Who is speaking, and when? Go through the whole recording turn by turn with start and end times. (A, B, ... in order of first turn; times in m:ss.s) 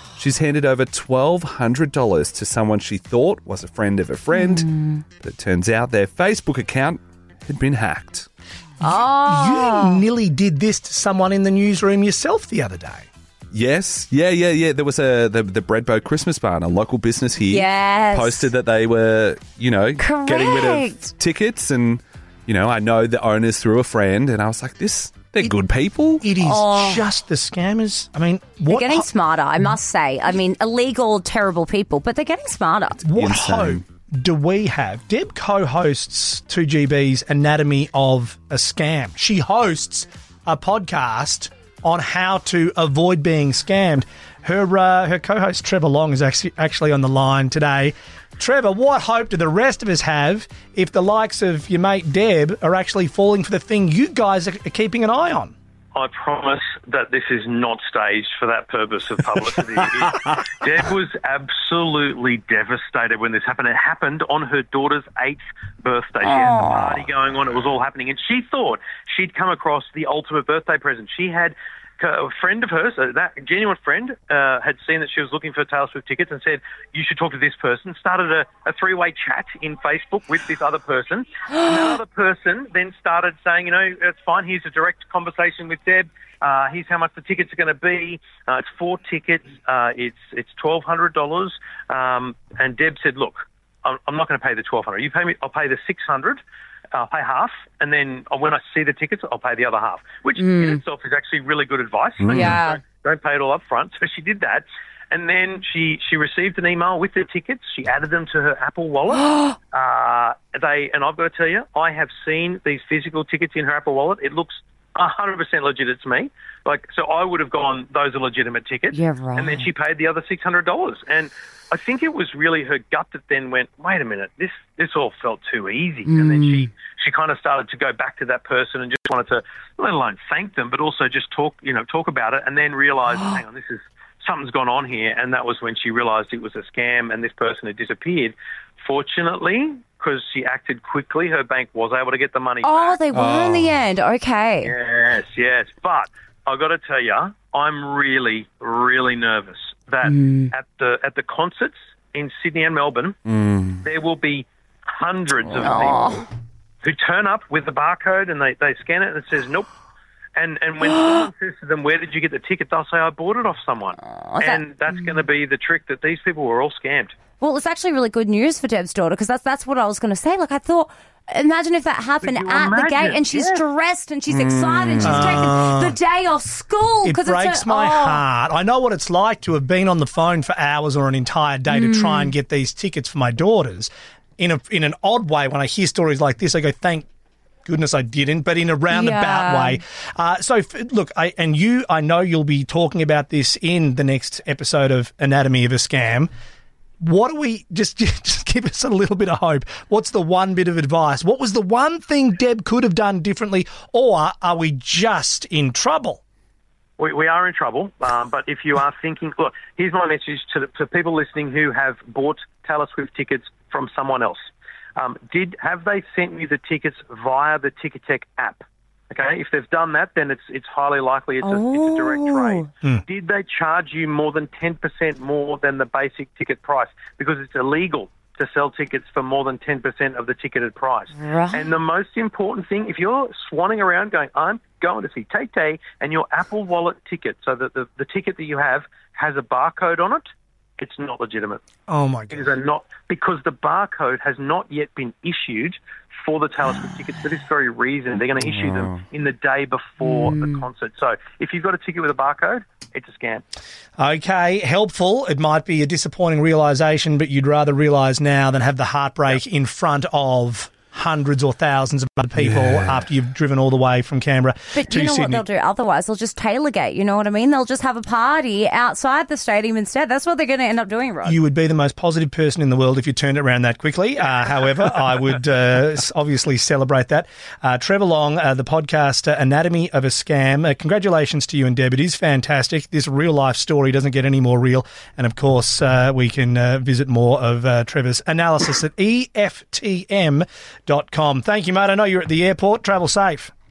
0:00.2-0:08.3 A
0:04.3-0:05.0 B
0:08.8-0:10.0 B
0:08.8-0:13.1 C
0:13.5-0:26.2 A
0:17.5-0:18.5 B
0:20.0-0:21.1 B
0:26.2-0:29.1 C
0:26.4-0:27.0 B
0:28.7-0:33.0 B
0:33.0-0:55.5 C
0:33.2-0:33.8 A
0:55.9-1:36.4 D
1:36.9-2:23.0 D
1:40.4-1:40.8 B
1:42.2-1:42.6 A
1:42.3-1:42.8 B
1:49.1-1:49.6 B
1:58.9-1:59.7 B
2:06.0-2:06.7 B
2:13.1-2:13.4 B
2:22.6-2:24.7 B
2:23.1-2:23.8 A
2:24.6-2:33.2 D
2:30.0-2:30.5 B
2:33.3-2:33.8 A
2:33.8-2:36.2 D
2:35.6-2:36.2 B
2:36.8-2:39.7 D
2:40.4-2:47.2 D
2:40.8-2:41.3 B
2:44.2-2:45.1 B
2:47.4-2:58.2 B
2:52.2-2:53.6 D
2:54.3-2:55.4 A
2:55.0-2:56.0 C
2:57.0-3:07.1 C
3:01.7-3:02.3 B
3:07.6-3:16.3 C
3:08.9-3:09.8 B
3:17.0-3:26.2 C
3:27.0-3:34.4 D
3:35.0-4:00.2 D
3:41.4-3:42.7 B
3:51.1-3:51.7 B
4:00.8-4:01.6 D
4:01.9-4:02.5 C
4:02.3-4:13.4 D
4:08.4-4:09.0 A
4:10.0-4:10.6 B
4:14.0-4:25.4 C
4:22.4-4:23.0 A
4:24.7-4:31.4 B
4:31.2-4:53.5 C